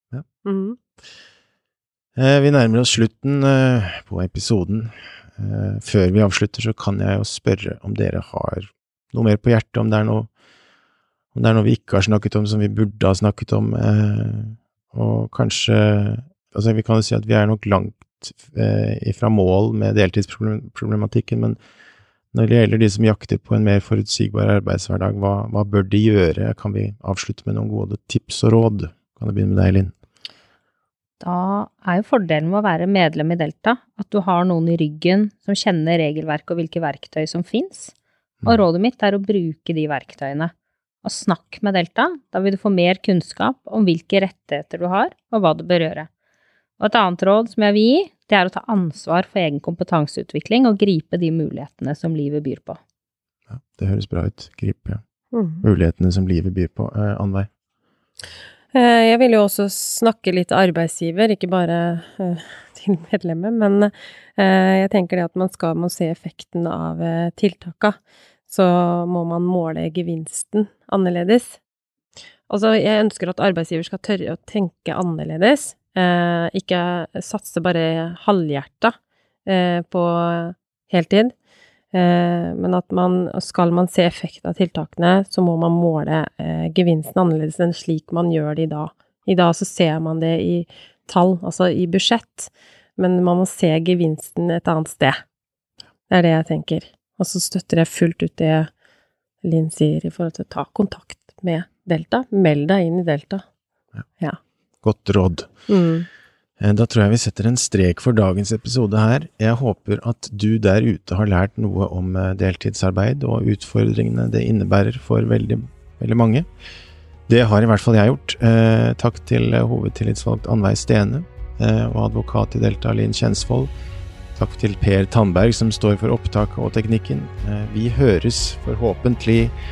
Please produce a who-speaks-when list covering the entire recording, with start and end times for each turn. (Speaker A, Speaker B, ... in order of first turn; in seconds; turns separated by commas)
Speaker A: 0.4-0.8, Speaker B: 2.2-10.3, Speaker B: 11.3-21.6, Speaker B: 22.3-29.9, Speaker C: 31.2-37.9, Speaker C: 38.5-40.5, Speaker C: 41.0-46.1, Speaker C: 46.8-52.8, Speaker B: 53.5-55.0, Speaker A: 55.3-55.6, Speaker B: 55.6-57.5, Speaker A: 58.7-68.0, Speaker A: 68.5-71.6, Speaker A: 72.5-78.9, Speaker A: 79.5-81.3, Speaker A: 81.9-95.2, Speaker A: 96.1-98.7, Speaker A: 99.4-103.4, Speaker B: 104.8-105.5, Speaker A: 105.7-106.1, Speaker B: 106.6-116.5, Speaker B: 117.3-123.7, Speaker B: 124.3-129.5